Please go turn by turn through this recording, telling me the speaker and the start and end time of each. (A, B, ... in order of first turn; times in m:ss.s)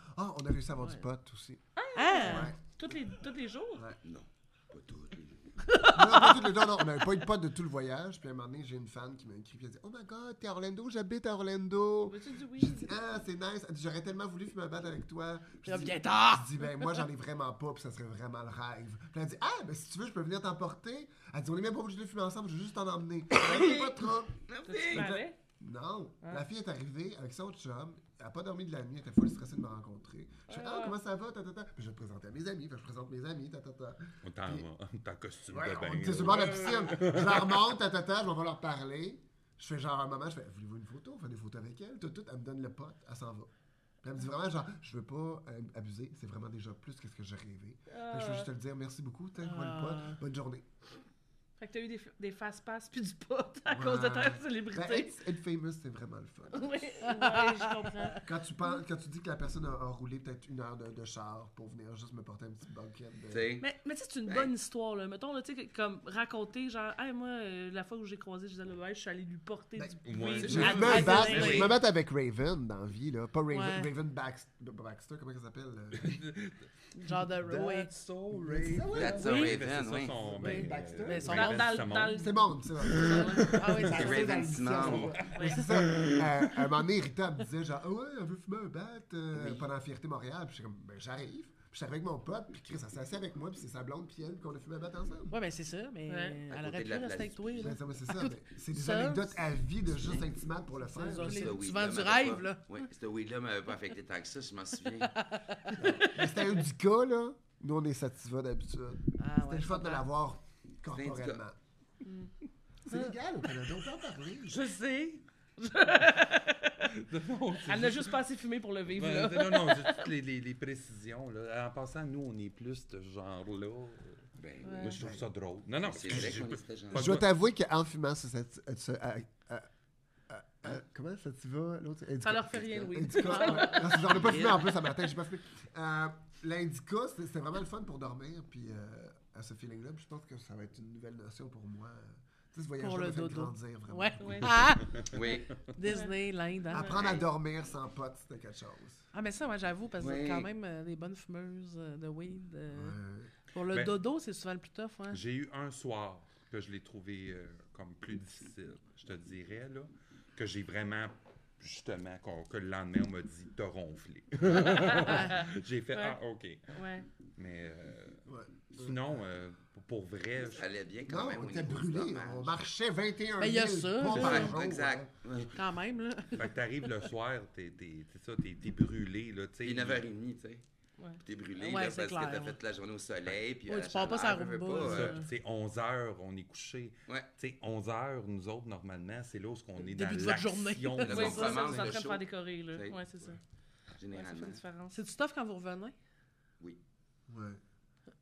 0:00.2-0:01.6 A
0:01.8-0:03.9 B
0:02.0-0:02.5 C
0:02.2-0:03.0 A
0:04.0-0:05.6 D
0:05.7-0:06.5 B
0:05.9-0:24.4 A
0:12.1-0:12.9 B
0:15.6-0:17.0 C
0:24.5-0:25.2 D
0:24.7-0:25.4 B
0:24.9-0:34.7 A
0:30.5-0:31.0 B
0:34.2-0:37.7 E
0:35.5-0:43.5 A
0:44.0-0:50.7 A
0:47.9-0:48.5 B
0:49.4-0:50.2 C
0:51.6-0:55.1 B
0:53.7-0:56.9 A
0:56.5-0:58.3 B
0:57.1-0:58.2 C
0:58.2-1:03.5 A
1:03.3-1:03.7 D
1:03.6-1:11.5 B
1:04.2-1:04.5 D
1:09.8-1:16.2 A
1:10.0-1:11.2 E
1:10.4-1:11.8 D
1:10.6-1:11.7 C
1:13.5-1:13.9 C
1:16.0-1:16.6 E
1:17.0-1:17.9 C
1:17.5-1:19.5 A
1:17.5-1:26.3 E
1:19.0-1:20.2 D
1:20.2-1:35.4 A
1:20.4-1:21.9 C
1:21.3-1:23.5 B
1:23.1-1:24.3 C
1:23.9-1:25.3 D
1:25.3-1:25.6 B
1:29.3-1:29.6 D
1:35.3-1:39.4 C
1:36.1-1:36.4 B
1:36.5-1:37.8 D
1:37.6-1:41.6 A
1:40.8-1:42.6 C
1:41.2-1:45.2 D
1:45.2-1:45.8 C
1:45.8-1:51.6 A
1:49.2-1:50.1 C
1:50.9-1:51.4 D
1:52.0-1:52.3 B
1:52.9-1:54.6 A
1:54.5-1:56.9 B
1:56.9-1:58.2 E
1:57.6-2:00.1 B
1:58.9-2:04.2 E
2:04.4-2:05.0 D
2:04.6-2:05.0 B
2:04.8-2:07.3 E
2:05.0-2:05.2 A
2:05.8-2:07.1 D
2:06.1-2:06.4 A
2:06.9-2:09.7 A
2:10.3-2:24.6 A
2:12.2-2:14.2 B
2:13.3-2:13.8 C
2:14.1-2:14.8 D
2:22.8-2:24.9 C
2:24.2-2:24.6 B
2:24.8-2:25.7 E
2:25.1-2:25.5 D
2:25.7-2:26.9 C
2:25.8-2:26.2 B
2:26.7-2:29.1 A
2:26.7-2:27.0 B
2:26.9-2:27.3 D
2:29.1-2:33.0 C
2:30.0-2:30.5 D
2:32.7-2:33.3 A
2:33.5-2:35.2 C
2:33.7-2:34.0 E
2:35.1-2:50.7 E
2:44.6-2:45.4 B
2:45.1-2:45.3 C
2:46.7-2:47.1 B
2:48.3-2:49.0 A
2:50.4-2:52.6 D
2:51.1-2:55.1 A
2:53.4-2:54.6 C
2:54.1-2:55.6 D
2:55.5-2:56.9 C
2:56.3-3:00.0 E
2:59.6-3:00.6 D
3:01.2-3:05.2 D
3:01.6-3:02.6 C
3:03.7-3:05.3 C
3:04.8-3:11.9 E
3:09.8-3:11.5 C
3:11.0-3:13.0 D
3:11.1-3:13.4 B
3:14.0-3:14.6 D
3:14.1-3:15.0 B
3:14.9-3:16.0 C
3:17.3-3:17.6 A